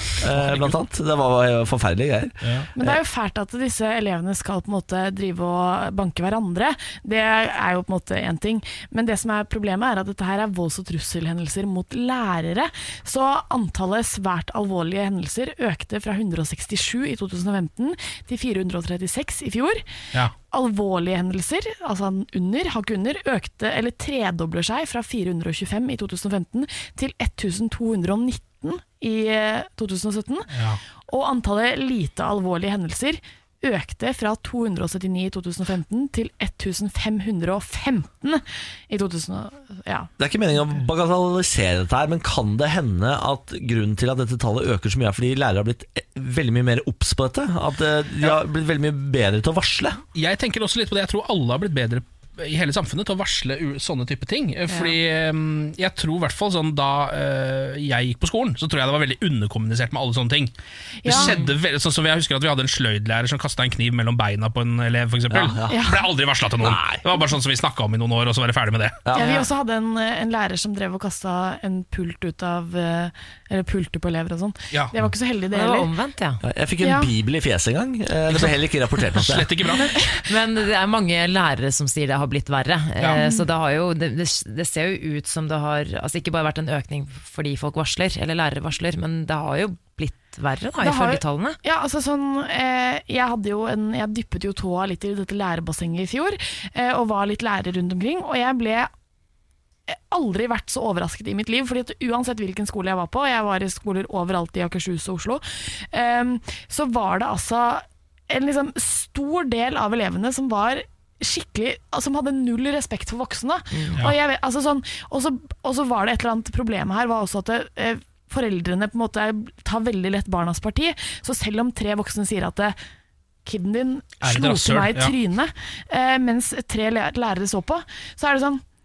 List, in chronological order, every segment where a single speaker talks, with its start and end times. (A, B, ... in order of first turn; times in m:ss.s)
0:00.2-0:03.0 A
0:00.3-0:00.8 B
0:02.4-0:02.7 B
0:02.8-0:19.8 C
0:20.5-0:30.5 C
0:30.5-0:30.8 B
0:31.1-0:40.1 C
0:40.2-0:50.0 A
0:50.1-1:00.5 B
0:54.7-0:55.0 D
1:01.0-1:01.4 C
1:01.0-1:09.0 B
1:05.3-1:05.9 A
1:05.7-1:06.0 C
1:06.6-1:07.0 A
1:09.0-1:09.4 A
1:09.1-1:15.9 C
1:09.2-1:09.4 D
1:15.5-1:16.4 D
1:16.4-1:19.5 A
1:16.8-1:17.1 C
1:18.3-1:20.0 B
1:20.3-1:31.6 D
1:23.1-1:23.5 C
1:30.8-1:38.9 C
1:39.9-2:02.7 C
2:03.4-2:08.6 C
2:04.2-2:05.1 B